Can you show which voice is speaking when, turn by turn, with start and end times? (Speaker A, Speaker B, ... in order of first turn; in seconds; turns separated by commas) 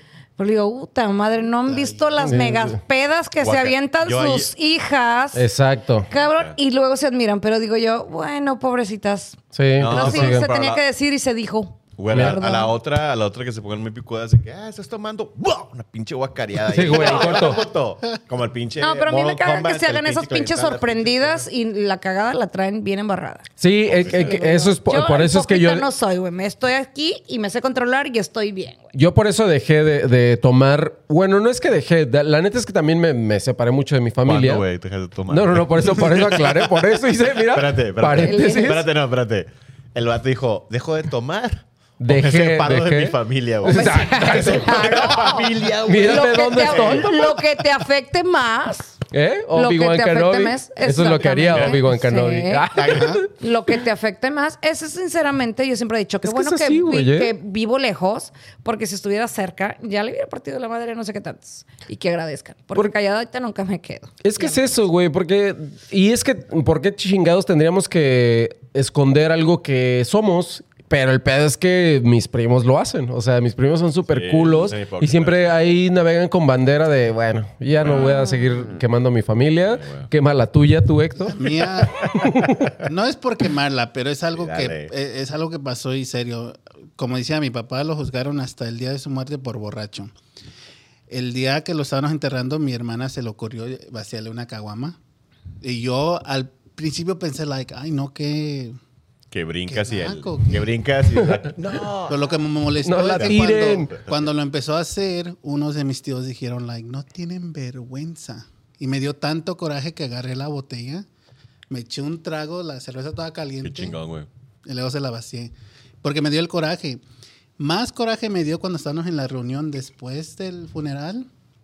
Speaker A: 0.4-5.5, Speaker B: 1.7-2.4, Speaker C: 2.2-2.8, Speaker D: 3.4-4.5, Speaker C: 5.3-6.1, Speaker A: 6.1-12.7, Speaker D: 6.1-6.5, Speaker C: 9.5-10.4, Speaker D: 9.8-10.8, Speaker D: 12.0-21.5, Speaker C: 12.1-12.4, Speaker C: 16.7-17.6, Speaker A: 16.9-17.6, Speaker A: 18.8-23.4, Speaker C: 23.6-25.9, Speaker D: 23.9-24.3, Speaker A: 24.0-28.9, Speaker C: 28.9-34.6, Speaker D: 34.2-36.8, Speaker C: 35.3-38.9, Speaker D: 37.4-47.1, Speaker A: 38.1-38.8, Speaker C: 42.0-45.1, Speaker A: 43.7-45.5, Speaker C: 45.8-47.3, Speaker A: 46.0-49.0, Speaker C: 49.1-53.3, Speaker A: 49.5-52.7, Speaker D: 51.5-51.8, Speaker D: 52.7-53.2, Speaker B: 52.8-53.2, Speaker A: 53.2-64.8, Speaker C: 56.2-57.3, Speaker C: 64.2-82.7, Speaker D: 74.1-75.4, Speaker A: 78.0-78.4, Speaker D: 79.7-80.1, Speaker B: 81.2-82.1, Speaker B: 82.8-90.1, Speaker D: 84.3-84.9, Speaker B: 91.1-95.0, Speaker B: 95.6-98.8, Speaker D: 99.3-102.4, Speaker B: 99.7-100.7, Speaker B: 102.0-111.0, Speaker C: 102.8-103.9, Speaker D: 103.1-104.0, Speaker B: 111.7-114.0, Speaker D: 113.6-114.3, Speaker B: 114.6-117.0, Speaker B: 117.6-121.3